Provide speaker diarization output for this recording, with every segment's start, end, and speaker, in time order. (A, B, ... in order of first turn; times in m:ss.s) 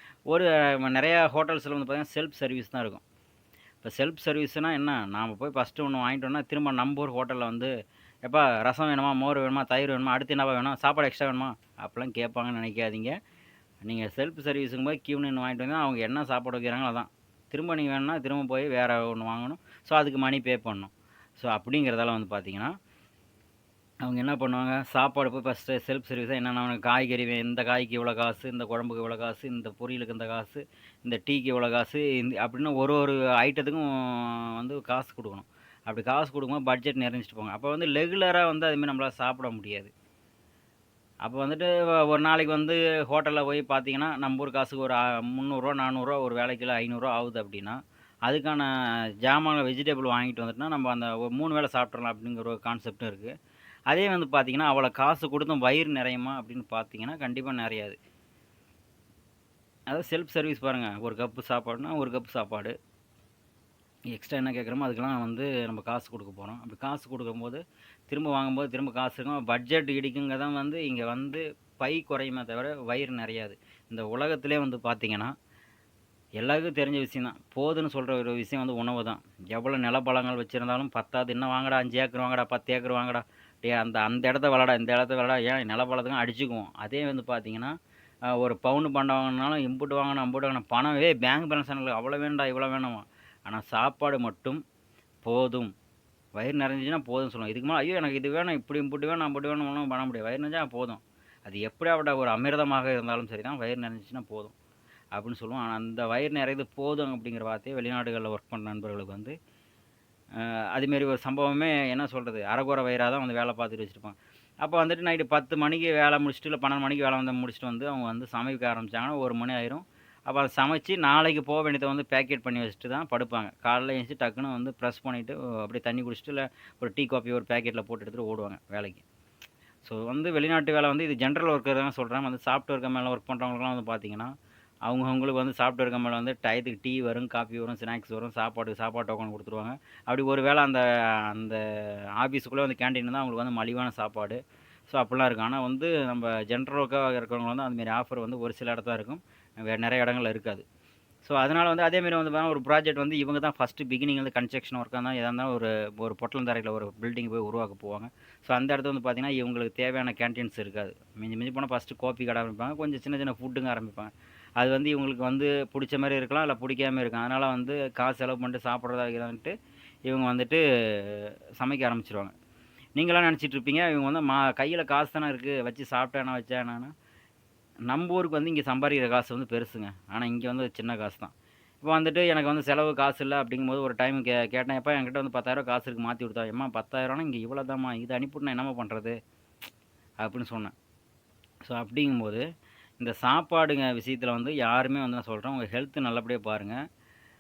0:00.3-0:03.0 A
0:03.8-0:07.7 A
0:08.3-0:13.2 A
0:13.9-0:22.7 A
0:24.0-0:39.9 A
0:41.2-0:48.7 A
0:49.2-0:53.3 A
0:53.9-0:58.0 A
0:59.9-1:02.7 A
1:04.1-1:15.3 A
1:16.4-1:27.8 A
1:28.3-1:34.6 A
1:35.2-1:35.7 A
1:36.4-1:44.6 A
1:45.2-1:49.4 A
1:50.4-2:09.0 A
2:09.8-2:14.3 A
2:14.9-2:21.6 A
2:22.2-2:30.6 A
2:31.2-2:49.5 A
2:50.1-2:52.3 A
2:53.0-2:56.9 A
2:57.9-3:01.3 A
3:01.8-3:09.2 A
3:10.2-3:10.7 A
3:11.7-3:12.4 A
3:13.0-3:16.8 A